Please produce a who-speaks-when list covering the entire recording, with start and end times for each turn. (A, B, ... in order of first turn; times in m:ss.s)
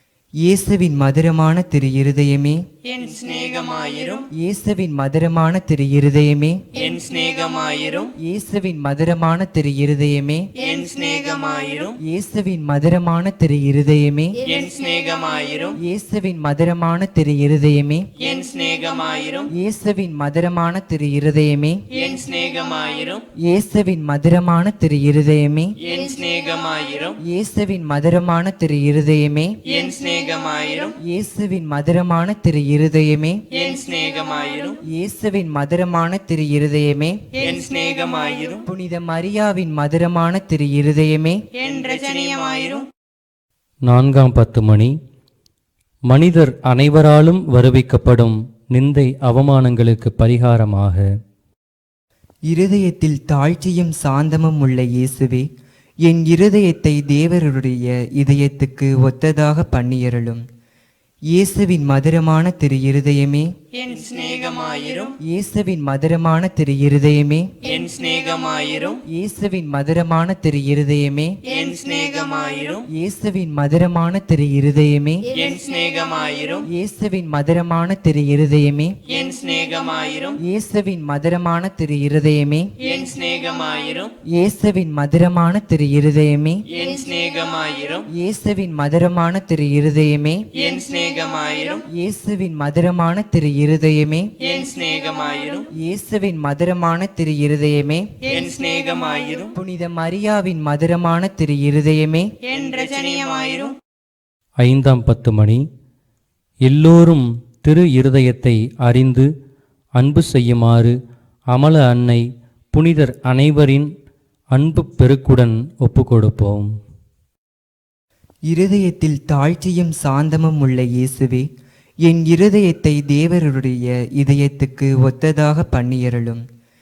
0:00.4-0:02.6 A
0:02.9-0:04.2 B
0:04.3-0:06.6 A
0:06.8-0:08.1 B
0:08.2-0:10.5 A
0:10.6-0:11.9 B
0:12.0-0:14.4 A
0:14.5-0:15.7 B
0:15.8-0:18.1 A
0:18.2-0:19.4 B
0:19.5-0:21.8 A
0:22.0-0:23.2 B
0:23.4-0:25.7 A
0:25.9-0:27.1 B
0:27.2-0:29.6 A
0:29.7-0:30.9 B
0:31.0-0:33.4 A
0:33.6-0:34.8 B
0:34.8-0:37.2 A
0:37.4-0:38.6 B
0:38.6-0:41.4 A
0:41.6-0:42.9 B
0:43.9-0:44.9 C
0:46.1-0:51.0 C
0:52.5-0:55.5 A
0:56.0-1:00.4 A
1:01.3-1:03.5 A
1:03.8-1:05.1 B
1:05.2-1:07.5 A
1:07.7-1:09.0 B
1:09.1-1:11.3 A
1:11.5-1:12.8 B
1:12.9-1:15.3 A
1:15.4-1:16.6 B
1:16.6-1:18.9 A
1:19.1-1:20.3 B
1:20.4-1:22.7 A
1:22.8-1:24.1 B
1:24.3-1:26.6 A
1:26.8-1:28.0 B
1:28.1-1:30.4 A
1:30.6-1:31.8 B
1:31.8-1:34.3 A
1:34.4-1:35.6 B
1:35.7-1:38.0 A
1:38.3-1:39.5 B
1:39.5-1:42.3 A
1:42.5-1:43.8 B
1:44.6-1:45.6 C
1:46.7-1:49.2 C
1:50.0-1:50.9 C
1:51.5-1:52.2 C
1:52.7-1:53.9 C
1:54.6-1:56.7 C
1:58.5-2:01.5 A
2:02.0-2:06.4 A